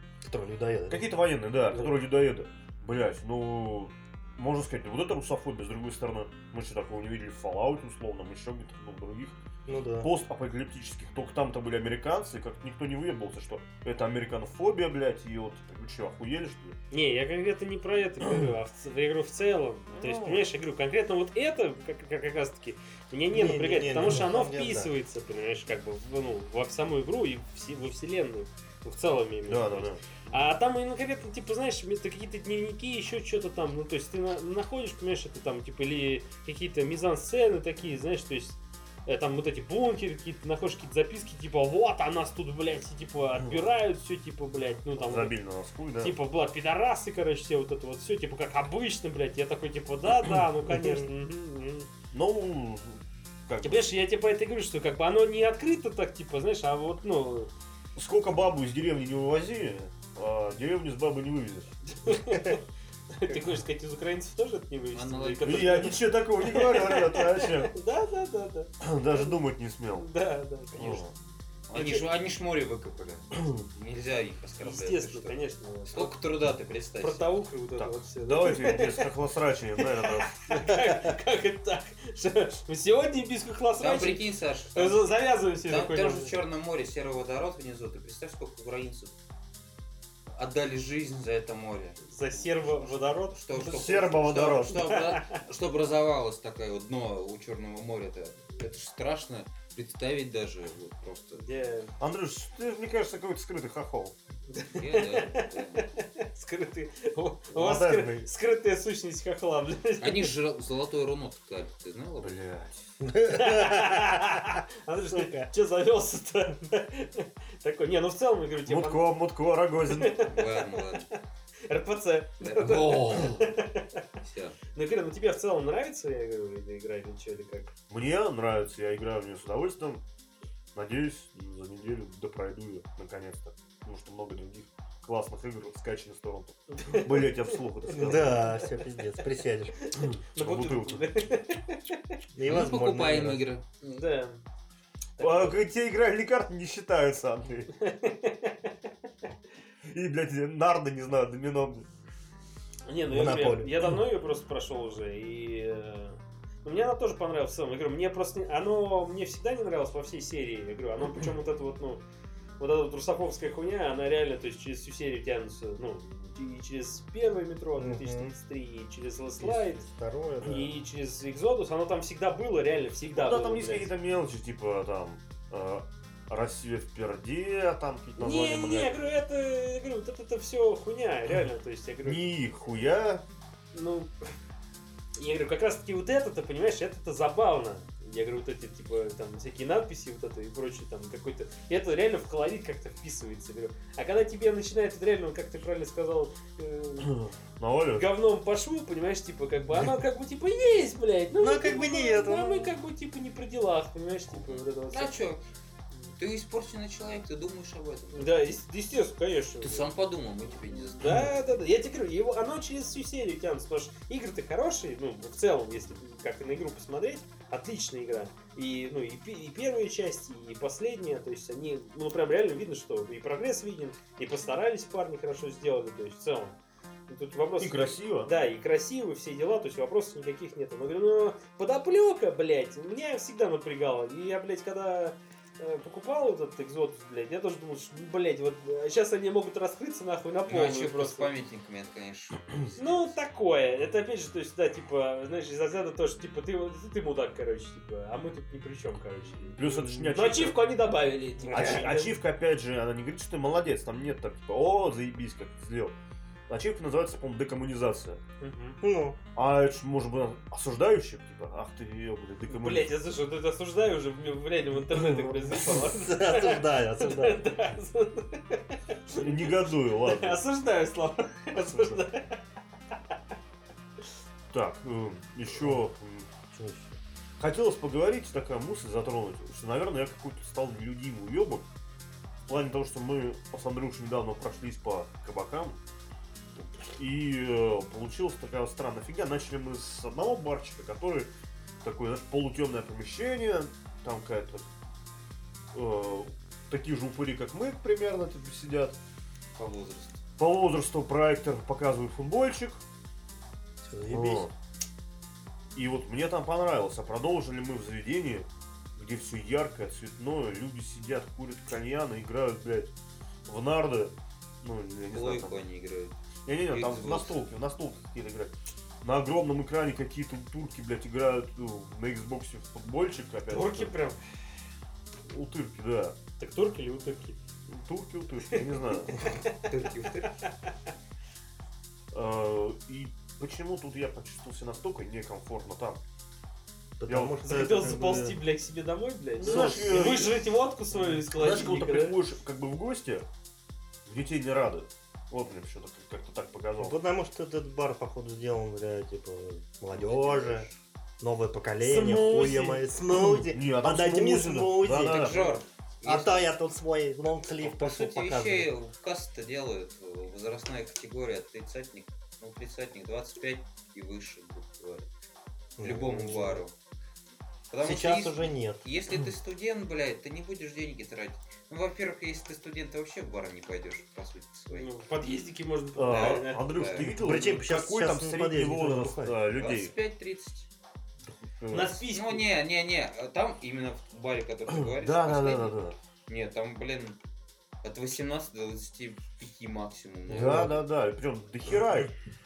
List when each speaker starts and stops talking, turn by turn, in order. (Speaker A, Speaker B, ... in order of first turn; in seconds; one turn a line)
Speaker A: 0.2-1.1
Speaker B: 0.9-9.4
Speaker A: 9.7-10.1
Speaker B: 10.0-16.8
Speaker C: 16.9-45.3
Speaker B: 19.9-20.5
Speaker A: 23.3-24.9
Speaker B: 29.4-30.5
Speaker B: 43.4-43.6
Speaker B: 45.0-46.1
Speaker C: 46.0-51.9
Speaker A: 50.7-51.1
Speaker B: 52.1-53.9
Speaker C: 53.6-57.5
Speaker B: 57.9-61.7
Speaker C: 61.9-69.3
Speaker D: 64.9-65.9
Speaker B: 65.4-67.7
Speaker B: 68.8-70.1
Speaker C: 69.9-71.0
Speaker B: 70.7-71.1
Speaker D: 71.7-77.4
Speaker C: 71.7-72.1
Speaker B: 73.3-73.6
Speaker C: 74.6-76.1
Speaker C: 77.0-79.1
Speaker B: 77.8-80.8
Speaker C: 79.8-86.3
Speaker D: 83.8-89.1
Speaker D: 90.3-101.4
Speaker C: 92.0-95.4
Speaker B: 93.6-95.0
Speaker C: 101.4-101.9
Speaker B: 102.0-104.1
Speaker C: 104.5-110.3
Speaker D: 104.7-105.9
Speaker B: 107.5-108.3
Speaker D: 110.0-112.4
Speaker B: 112.2-112.8
Speaker A: 113.0-114.5
Speaker C: 113.3-119.1
Speaker A: 115.1-115.5
Speaker B: 118.7-120.2
Speaker C: 119.9-124.0
Speaker D: 120.2-121.1
Speaker D: 122.4-123.5
Speaker D: 124.2-124.6
Speaker C: 124.7-127.7
Speaker B: 127.9-130.0
Speaker B: 130.7-138.5
Speaker C: 136.7-138.7
Speaker A: 137.9-139.8
Speaker C: 139.8-142.2
Speaker B: 140.0-141.1
Speaker A: 142.3-143.4
Speaker D: 142.4-143.6
Speaker C: 143.8-144.4
Speaker C: 145.2-145.6
Speaker B: 145.2-147.7
Speaker C: 147.8-148.7
Speaker B: 149.9-151.9
Speaker C: 152.9-162.0
Speaker A: 153.0-154.0
Speaker C: 162.6-169.8
Speaker A: 167.8-168.3
Speaker A: 169.4-170.7
Speaker C: 170.4-173.9
Speaker B: 173.1-179.1
Speaker C: 178.2-182.3
Speaker B: 182.0-183.2
Speaker C: 183.7-184.1
Speaker C: 185.2-197.2
Speaker B: 197.0-198.1
Speaker C: 198.0-205.2
Speaker A: 201.4-202.7
Speaker D: 204.4-205.4
Speaker D: 206.2-208.5
Speaker C: 208.1-209.9
Speaker D: 209.6-211.4
Speaker C: 211.0-226.6
Speaker C: 227.1-241.3
Speaker B: 227.6-228.3
Speaker D: 240.4-243.2
Speaker C: 242.8-252.2
Speaker B: 249.6-250.6
Speaker A: 249.6-250.1
Speaker A: 251.5-251.9
Speaker B: 251.5-255.9
Speaker B: 256.5-258.2
Speaker C: 258.4-258.8
Speaker A: 258.8-259.2
Speaker B: 259.3-262.9
Speaker C: 262.5-272.4
Speaker B: 264.9-265.5
Speaker A: 265.5-267.5
Speaker B: 269.1-270.4
Speaker B: 271.5-272.0
Speaker B: 274.5-276.3
Speaker A: 275.6-275.9
Speaker A: 276.5-277.0
Speaker B: 277.4-281.7
Speaker B: 282.5-285.8
Speaker B: 286.8-291.3
Speaker B: 291.8-294.7
Speaker B: 295.7-299.0
Speaker D: 299.5-300.2
Speaker B: 300.4-302.8
Speaker A: 303.8-304.5
Speaker B: 304.1-304.5
Speaker B: 305.7-312.9
Speaker B: 313.4-315.6
Speaker D: 315.1-316.1
Speaker B: 316.4-323.9
Speaker D: 316.7-317.4
Speaker C: 323.5-324.2
Speaker B: 325.3-326.2
Speaker C: 326.4-327.4
Speaker B: 327.7-329.2
Speaker C: 329.2-329.7
Speaker D: 329.6-330.4
Speaker B: 332.1-336.0
Speaker A: 337.0-338.4
Speaker B: 337.1-338.4
Speaker C: 337.4-342.2
Speaker A: 339.4-340.3
Speaker B: 339.4-343.3
Speaker B: 344.1-347.0
Speaker A: 346.8-350.7
Speaker D: 349.9-350.7
Speaker A: 351.2-355.5
Speaker C: 351.8-352.9
Speaker B: 353.1-355.6
Speaker D: 355.0-356.5
Speaker A: 356.0-358.7
Speaker D: 357.6-365.1
Speaker A: 365.8-366.6
Speaker D: 365.8-366.7
Speaker D: 367.7-374.9
Speaker A: 367.8-368.8
Speaker C: 374.7-376.9
Speaker B: 375.9-379.9
Speaker D: 376.1-377.1
Speaker A: 377.0-379.4
Speaker D: 379.6-380.6
Speaker B: 381.4-382.0
Speaker C: 381.7-382.4
Speaker D: 381.8-387.2
Speaker B: 384.8-385.9
Speaker D: 387.8-390.8
Speaker B: 390.3-392.1
Speaker A: 390.3-390.8